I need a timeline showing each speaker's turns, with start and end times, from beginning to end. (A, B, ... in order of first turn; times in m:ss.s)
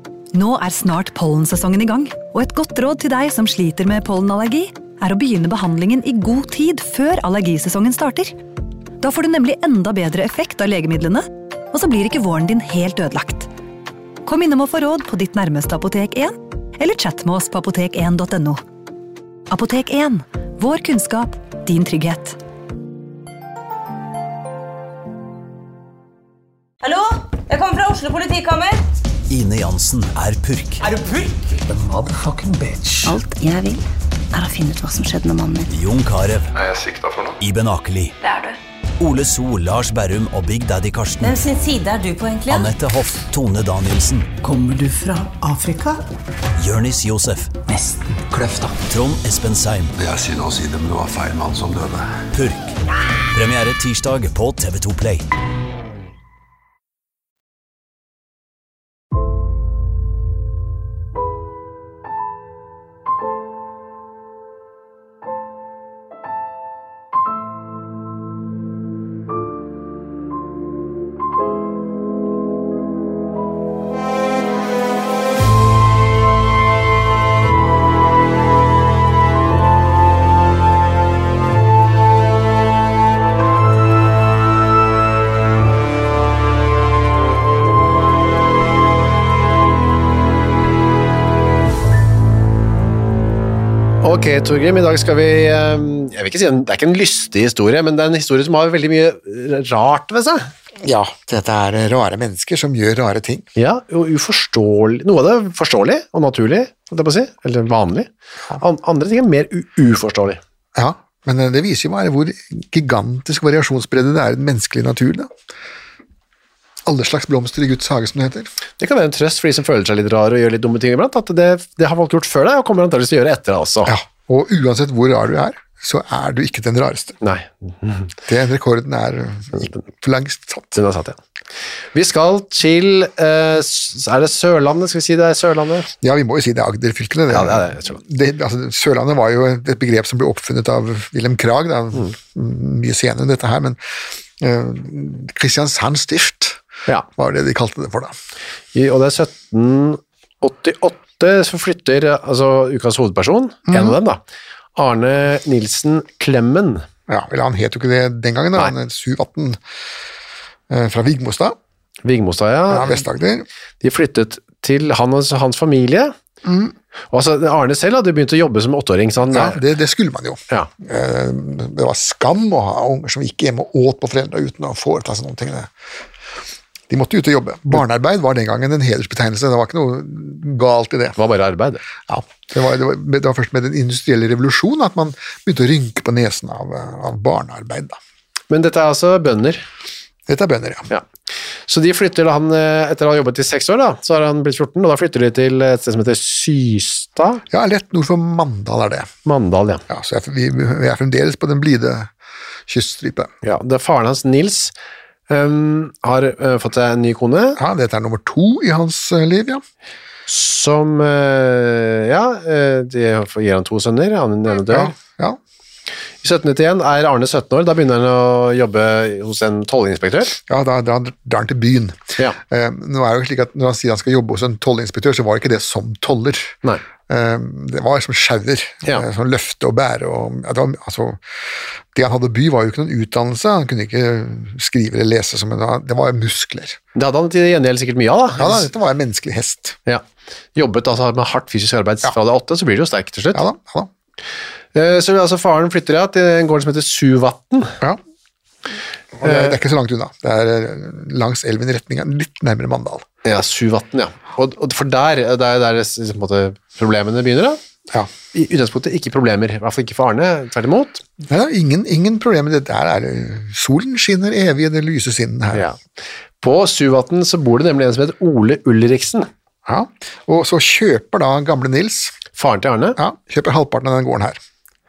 0:00.3-0:08.3 A
0:09.0-0:13.5 A
0:14.2-0:18.6 A
0:19.5-0:22.4 A
0:26.8-0:28.8 B
0:29.3-0:30.9 C
0:31.6-0:33.2 D
0:33.0-0:35.7 E
0:35.7-0:36.5 C
0:36.5-0:37.4 F
0:37.4-0:38.1 C
0:38.2-0:38.6 B
0:39.0-0:41.4 C
0:41.2-0:42.7 B
0:42.5-0:44.3 C
0:44.4-0:46.0 D
0:46.6-0:47.6 C
0:47.6-0:48.8 D
0:48.9-0:50.0 C
0:50.0-0:52.2 F
0:52.3-0:52.8 C
0:53.3-0:55.3 C
1:34.0-1:40.5 G
1:40.8-1:43.5 H
1:43.6-1:50.4 G
1:50.7-1:55.3 H
1:56.8-1:58.5 H
1:58.8-2:03.9 G
2:03.8-2:07.2 H
2:07.2-2:08.1 G
2:08.3-2:10.8 H
2:10.7-2:11.2 G
2:11.9-2:15.9 G
2:16.0-2:23.8 H
2:17.3-2:18.0 G
2:24.4-2:26.6 H
2:27.2-2:28.1 H
2:28.7-2:34.2 G
2:33.7-2:34.0 H
2:34.8-2:36.8 G
2:37.1-2:39.6 H
2:40.7-2:41.6 H
2:42.0-2:43.0 G
2:42.7-2:43.4 H
2:43.8-2:46.1 G
2:46.4-2:46.7 H
2:47.1-2:49.6 G
2:49.3-2:55.7 H
2:56.9-3:01.2 H
3:01.2-3:01.8 G
3:02.1-3:08.0 H
3:08.5-3:09.6 G
3:10.3-3:10.9 H
3:11.7-3:17.4 G
3:17.5-3:19.1 H
3:19.2-3:19.8 G
3:19.9-3:22.1 H
3:22.7-3:23.3 H
3:23.4-3:24.7 G
3:25.3-3:27.6 G
3:27.6-3:29.6 H
3:30.3-3:34.9 G
3:34.6-3:35.4 H
3:36.2-3:40.4 G
3:40.4-3:46.6 H
3:47.1-3:51.2 H
3:51.9-3:56.8 H
3:56.9-3:58.7 G
3:58.4-3:59.8 H
4:00.6-4:03.4 G
4:03.3-4:03.9 H
4:04.7-4:07.8 G
4:09.2-4:09.6 G
4:09.2-4:13.0 H
4:13.2-4:17.6 G
4:18.3-4:21.0 G
4:21.2-4:25.7 H
4:25.5-4:25.8 G
4:26.4-4:29.3 G
4:29.7-4:32.2 H
4:32.3-4:33.0 G
4:33.0-4:34.4 H